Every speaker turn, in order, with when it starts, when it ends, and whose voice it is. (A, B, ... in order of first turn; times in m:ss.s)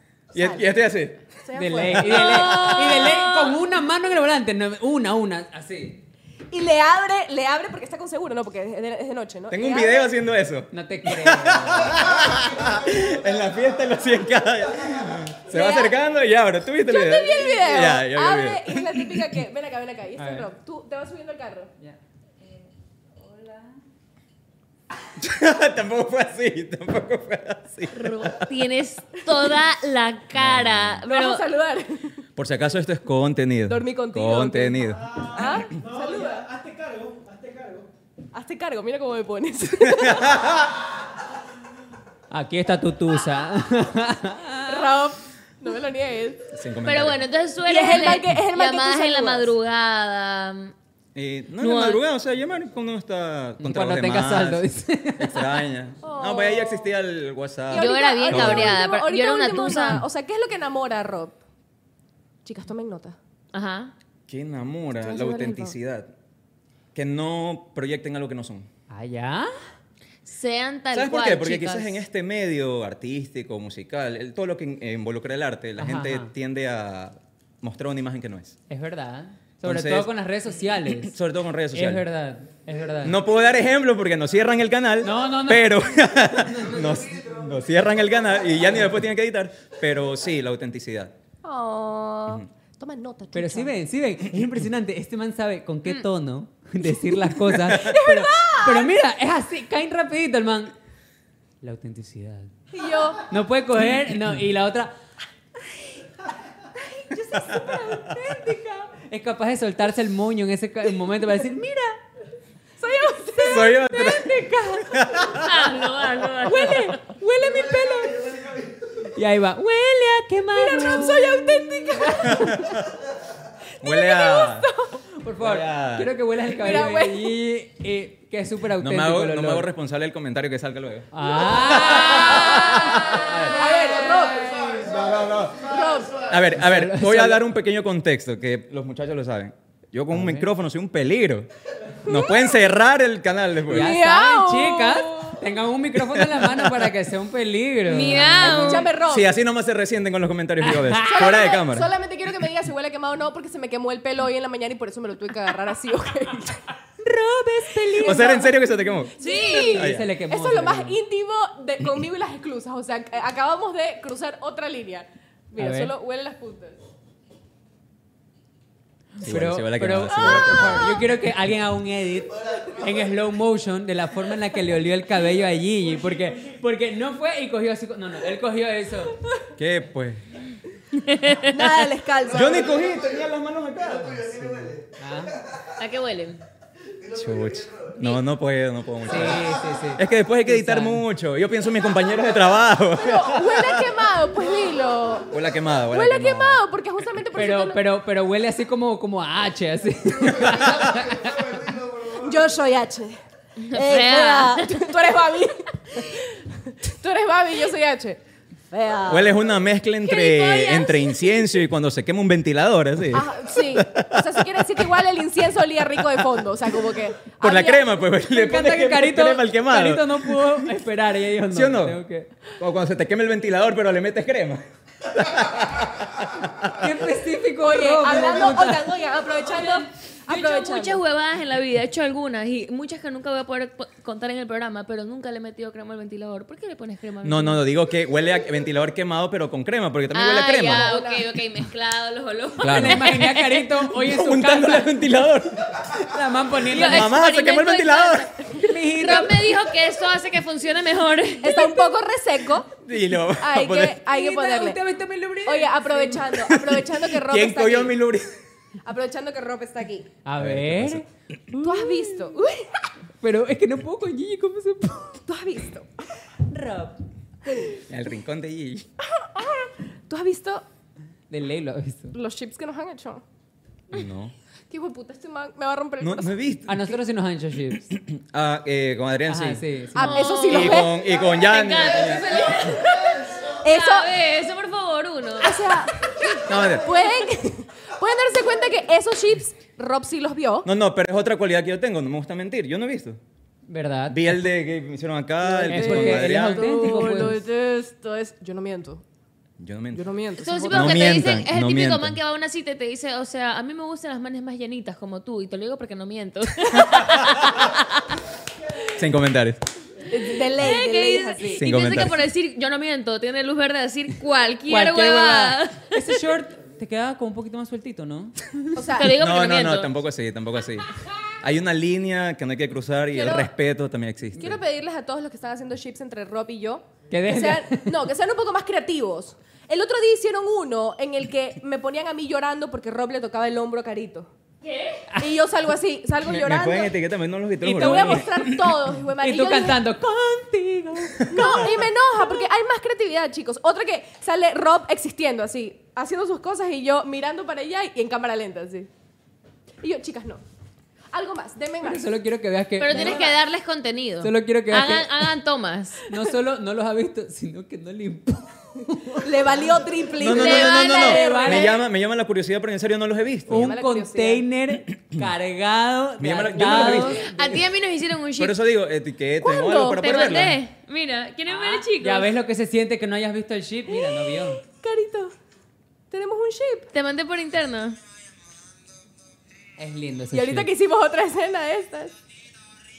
0:00.3-0:01.2 A
0:00.4-0:00.7 B
0:01.4-0:02.8 B
0:01.6-0:06.0 C
0:02.1-0:03.6 D
0:06.5-0:10.1 B
0:09.5-0:19.3 A
0:10.7-0:12.1 C
0:15.5-0:16.0 B
0:16.9-0:21.7 B
0:20.2-0:20.5 C
0:21.8-0:22.6 C
0:23.2-0:23.7 C
0:25.2-0:28.5 A
0:27.9-0:31.5 D
0:30.4-0:31.0 A
0:31.1-0:32.2 B
0:32.4-0:35.3 A
0:33.7-0:36.5 B
0:35.8-0:37.9 E
0:38.3-0:40.4 B
0:39.9-0:40.7 A
0:42.3-0:45.0 C
0:44.7-0:46.5 B
0:46.5-0:47.2 A
0:46.8-0:50.7 D
0:47.7-0:49.5 B
0:51.2-0:54.6 A
0:51.6-0:52.0 D
0:53.6-0:55.7 C
0:55.2-0:58.7 A
0:56.0-0:56.9 B
0:57.7-1:01.4 B
0:57.7-1:00.0 D
1:02.4-1:03.2 B
1:03.5-1:03.9 D
1:04.3-1:06.1 A
1:05.0-1:05.8 B
1:06.9-1:08.7 A
1:08.9-1:09.5 C
1:10.3-1:12.0 D
1:10.9-1:18.6 A
1:15.8-1:16.3 C
1:18.7-1:21.1 C
1:19.6-1:20.1 A
1:21.0-1:22.0 A
1:21.7-1:23.2 C
1:23.0-1:31.2 A
1:25.0-1:26.8 C
1:31.4-1:33.8 B
1:33.3-1:40.7 C
1:37.7-1:38.9 B
1:41.6-1:42.5 C
1:42.7-1:43.3 B
1:43.2-1:44.9 C
1:46.9-1:48.1 B
1:47.0-1:52.0 C
1:52.8-1:54.3 B
1:53.4-1:55.5 A
1:53.6-1:55.0 C
1:55.3-1:57.0 D
1:56.4-1:58.1 B
1:56.5-1:58.3 C
1:59.0-2:02.6 C
2:00.6-2:02.7 B
2:02.2-2:02.9 A
2:03.8-2:04.7 A
2:03.8-2:05.0 B
2:05.2-2:09.7 C
2:05.4-2:06.1 A
2:06.5-2:07.4 B
2:08.8-2:13.7 A
2:11.1-2:13.4 C
2:11.3-2:15.0 B
2:14.8-2:21.5 A
2:15.6-2:16.3 B
2:16.5-2:17.5 C
2:20.1-2:20.5 C
2:22.0-2:24.0 A
2:22.1-2:22.5 B
2:23.6-2:28.9 C
2:23.7-2:25.4 B
2:26.0-2:26.8 A
2:27.9-2:28.9 D
2:28.4-2:29.3 B
2:28.7-2:31.9 A
2:30.6-2:31.5 C
2:31.0-2:36.6 B
2:37.0-2:38.6 C
2:38.0-2:39.1 A
2:38.0-2:38.5 B
2:39.2-2:46.8 B
2:39.2-2:39.9 D
2:39.5-2:41.0 C
2:39.7-2:40.1 A
2:45.6-2:45.9 C
2:49.2-2:59.2 C
2:49.2-2:50.9 A
2:59.6-3:00.2 A
3:01.1-3:01.4 D
3:01.4-3:02.8 B
3:02.3-3:04.7 A
3:04.2-3:05.4 C
3:05.8-3:06.4 D
3:07.1-3:13.9 A
3:09.0-3:11.1 C
3:13.0-3:15.3 B
3:15.3-3:16.6 A
3:15.9-3:17.8 B
3:17.3-3:21.6 C
3:20.2-3:21.0 A
3:22.1-3:23.2 B
3:23.6-3:24.9 D
3:23.7-3:28.2 B
3:28.7-3:29.4 B
3:29.1-3:34.6 A
3:30.0-3:31.4 B
3:33.1-3:38.0 B
3:36.2-3:36.4 A
3:37.4-3:40.6 A
3:38.3-3:42.3 C
3:41.5-3:42.0 A
3:42.6-3:46.9 A
3:46.8-3:48.9 C
3:47.6-3:51.0 B
3:49.5-3:57.6 D
3:57.2-4:00.9 A
4:00.1-4:03.7 D
4:00.7-4:01.3 B
4:02.6-4:03.1 A
4:02.6-4:05.0 C
4:04.0-4:05.8 A
4:06.0-4:07.2 C
4:06.7-4:11.9 D
4:06.8-4:08.3 A
4:08.5-4:09.4 C
4:11.4-4:12.7 B
4:12.8-4:14.0 A
4:13.4-4:14.8 B
4:14.0-4:16.4 C
4:15.4-4:18.0 B
4:16.6-4:18.3 A
4:18.8-4:20.1 B
4:20.2-4:22.3 C
4:20.4-4:21.1 A
4:21.6-4:22.9 B
4:23.2-4:25.2 C
4:25.2-4:25.9 B
4:26.3-4:27.0 C
4:27.8-4:28.9 A
4:29.1-4:30.6 B
4:31.3-4:32.2 C
4:32.1-4:33.2 B
4:33.9-4:34.3 A
4:34.7-4:36.4 B
4:36.0-4:37.0 A
4:36.7-4:37.9 C
4:37.9-4:39.6 A
4:39.3-4:40.6 C
4:40.0-4:41.1 B
4:40.0-4:45.6 D
4:40.5-4:42.8 A
4:43.5-4:44.1 B
4:45.4-4:50.7 B
4:46.5-4:46.9 A
4:50.6-4:53.2 A
4:53.7-4:54.4 C
4:54.1-4:57.3 A
4:55.4-4:59.0 B
4:55.6-4:57.4 C
4:59.6-5:00.1 A
4:59.9-5:01.1 B
5:00.4-5:08.2 D
5:00.7-5:02.2 A
5:06.8-5:07.2 A
5:09.0-5:09.6 A
5:10.1-5:11.6 B
5:10.5-5:16.1 D
5:11.6-5:12.2 A
5:14.7-5:18.6 C
5:18.8-5:19.1 B
5:19.0-5:19.9 D
5:19.2-5:20.9 A
5:21.4-5:24.6 A
5:23.1-5:23.5 B
5:24.4-5:34.3 B
5:27.1-5:28.0 C
5:34.6-5:35.0 D
5:35.1-5:35.4 C
5:35.2-5:37.0 B
5:36.3-5:38.5 A
5:37.6-5:41.8 C
5:37.7-5:39.8 B
5:41.3-5:48.9 B
5:49.8-5:50.4 B
5:51.1-5:52.1 B
5:51.8-5:53.3 C
5:52.8-5:56.1 D
5:52.9-5:53.2 B
5:54.2-5:55.3 C
5:56.1-5:59.6 C
5:59.1-6:01.8 B
6:00.2-6:03.7 A
6:00.2-6:01.8 C
6:00.4-6:00.8 D
6:03.5-6:07.3 C
6:03.5-6:04.4 B
6:06.2-6:07.3 A
6:06.6-6:08.6 D
6:08.4-6:10.6 A
6:09.4-6:10.4 B
6:10.0-6:12.3 D
6:11.5-6:14.6 C
6:13.9-6:15.3 B
6:16.1-6:16.9 B
6:16.9-6:18.0 D
6:19.8-6:20.7 C
6:20.3-6:22.1 B